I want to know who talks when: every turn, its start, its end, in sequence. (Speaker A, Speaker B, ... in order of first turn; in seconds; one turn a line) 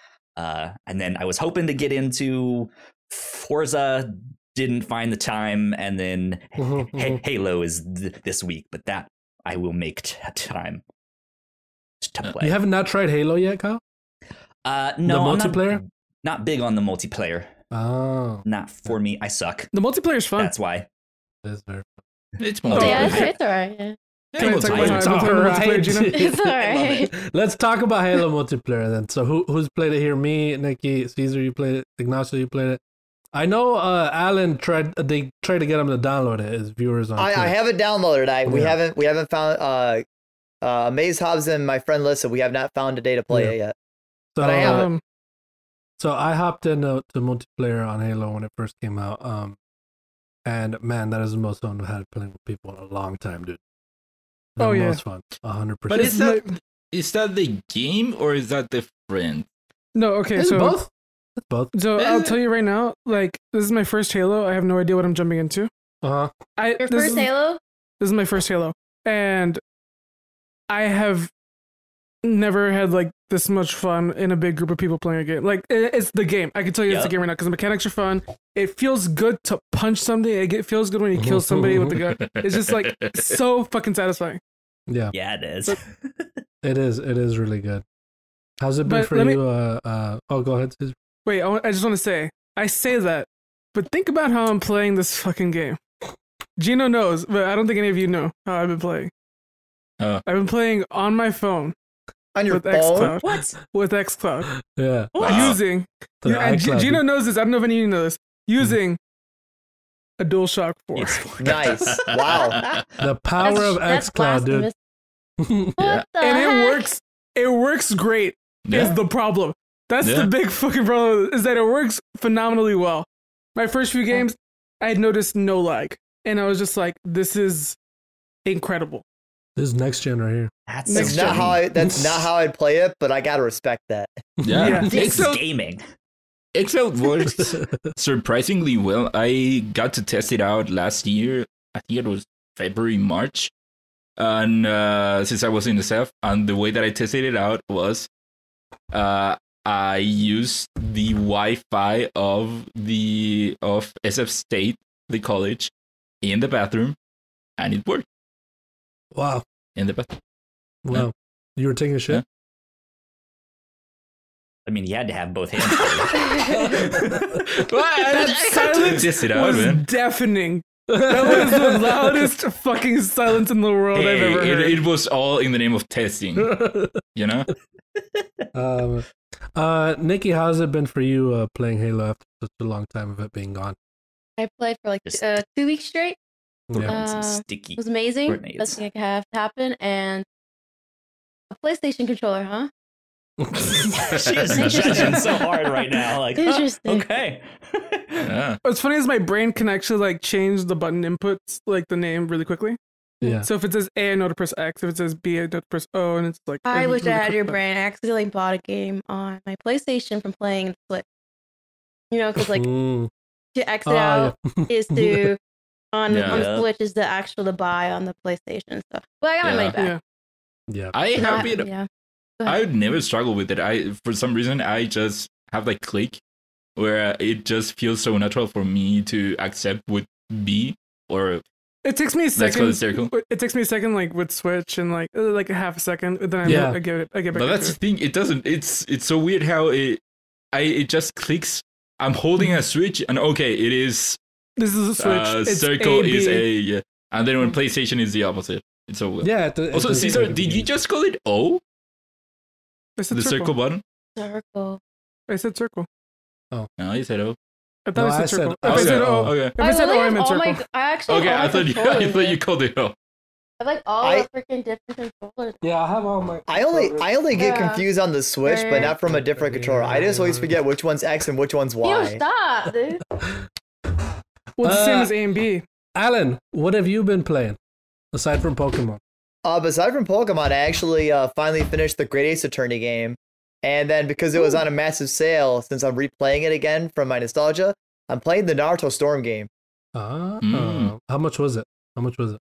Speaker A: 0.4-10.8
Speaker B: 6.6-7.2
Speaker A: 12.0-12.6
Speaker B: 12.4-13.8
Speaker A: 14.6-17.5
Speaker B: 15.1-15.8
Speaker B: 17.7-18.4
Speaker A: 18.4-19.7
Speaker C: 19.7-20.5
Speaker A: 20.4-20.9
Speaker B: 21.4-22.0
Speaker D: 22.4-23.3
Speaker A: 22.6-23.3
Speaker E: 22.7-23.9
Speaker C: 22.7-23.2
Speaker D: 24.3-25.5
Speaker C: 24.4-26.2
Speaker A: 24.4-25.6
Speaker B: 25.1-32.8
Speaker E: 26.1-27.1
Speaker A: 26.6-27.1
Speaker B: 33.3-37.5
Speaker F: 37.2-40.0
Speaker B: 38.4-38.8
Speaker F: 40.6-43.7
Speaker B: 44.4-44.9
Speaker F: 44.4-44.9
Speaker C: 44.6-45.0
Speaker B: 46.0-49.6
Speaker B: 50.5-53.6
Speaker B: 54.6-56.2
Speaker C: 54.6-55.0
Speaker D: 55.9-59.5
Speaker C: 55.9-56.5
Speaker C: 59.9-60.8
Speaker B: 60.3-61.7
Speaker C: 61.7-65.7
Speaker D: 62.0-62.4
Speaker B: 66.0-66.3
Speaker C: 66.6-67.3
Speaker E: 66.8-67.6
Speaker C: 68.0-69.6
Speaker C: 70.7-71.3
Speaker C: 72.2-84.4
Speaker A: 76.8-77.1
Speaker B: 81.2-82.1
Speaker D: 82.1-83.3
Speaker B: 84.9-85.1
Speaker A: 85.1-86.4
Speaker B: 86.6-87.8
Speaker B: 88.6-90.9
Speaker C: 88.8-89.4
Speaker C: 91.2-95.8
Speaker C: 96.6-99.1
Speaker C: 100.2-101.7
Speaker F: 102.3-103.2
Speaker C: 102.5-104.5
Speaker A: 103.0-103.6
Speaker B: 104.7-105.5
Speaker C: 105.1-109.0
Speaker D: 105.2-105.6
Speaker B: 106.2-107.0
Speaker C: 110.2-111.2
Speaker A: 110.9-113.0
Speaker F: 111.4-112.6
Speaker D: 111.5-112.7
Speaker B: 113.0-114.7
Speaker E: 113.4-114.7
Speaker B: 115.4-115.8
Speaker E: 115.8-116.9
Speaker D: 115.8-116.0
Speaker C: 116.2-127.8
Speaker D: 118.7-119.0
Speaker D: 120.0-120.3
Speaker C: 128.4-129.0
Speaker B: 129.6-130.5
Speaker A: 130.7-131.7
Speaker C: 130.9-131.5
Speaker F: 130.9-134.2
Speaker B: 131.8-132.2
Speaker B: 134.4-134.9
Speaker D: 134.4-135.3
Speaker C: 134.5-135.4
Speaker A: 134.8-135.8
Speaker D: 136.5-143.5
Speaker B: 137.2-137.9
Speaker D: 144.2-148.1
Speaker D: 148.9-155.7
Speaker D: 156.2-156.9
Speaker D: 157.6-158.0
Speaker B: 159.1-159.4
Speaker D: 159.8-160.2
Speaker B: 160.8-162.2
Speaker A: 164.7-167.4
Speaker B: 166.7-167.2
Speaker D: 167.4-169.8
Speaker C: 168.0-174.8
Speaker B: 170.9-172.3
Speaker D: 173.9-176.6
Speaker B: 176.4-177.0
Speaker D: 177.1-177.5
Speaker B: 178.5-183.8
Speaker E: 184.4-186.2
Speaker B: 186.7-186.9
Speaker A: 186.7-188.8
Speaker E: 186.8-190.2
Speaker E: 191.5-192.7
Speaker B: 193.4-193.7
Speaker A: 193.7-198.3
Speaker D: 194.2-195.1
Speaker E: 194.6-195.7
Speaker E: 196.4-197.1
Speaker D: 198.2-198.6
Speaker C: 198.6-202.8
Speaker B: 203.2-203.5
Speaker C: 203.4-207.6
Speaker E: 206.7-211.0
Speaker E: 212.1-212.7
Speaker B: 212.4-213.1
Speaker E: 213.5-215.4
Speaker B: 213.8-215.3
Speaker E: 215.9-219.9
Speaker D: 216.1-216.4
Speaker A: 216.1-216.7
Speaker D: 219.4-219.8
Speaker B: 220.7-220.9
Speaker D: 220.9-221.7
Speaker E: 221.2-221.9
Speaker D: 222.4-226.2
Speaker D: 226.8-231.4
Speaker C: 231.8-237.8
Speaker D: 232.3-233.1
Speaker D: 236.4-236.7
Speaker B: 236.4-236.8
Speaker D: 237.3-240.0
Speaker D: 240.5-244.2
Speaker C: 244.6-246.4
Speaker D: 245.0-251.6
Speaker B: 249.2-250.7
Speaker C: 253.0-253.5
Speaker D: 253.1-253.8
Speaker E: 254.2-254.8
Speaker C: 255.3-255.9
Speaker D: 256.8-257.4
Speaker C: 257.9-260.6
Speaker B: 257.9-259.4
Speaker D: 258.6-259.6
Speaker E: 259.6-262.4
Speaker D: 261.1-262.9
Speaker E: 263.6-265.6
Speaker F: 264.0-264.3
Speaker B: 265.6-267.1
Speaker F: 266.5-272.2
Speaker E: 267.4-267.9
Speaker E: 268.4-268.9
Speaker B: 269.0-270.6
Speaker E: 271.8-273.0
Speaker C: 274.6-275.6
Speaker B: 274.6-275.1
Speaker B: 275.9-277.6
Speaker B: 278.1-279.0
Speaker F: 279.4-289.5
Speaker E: 284.4-284.6
Speaker B: 289.9-292.4
Speaker D: 290.4-290.9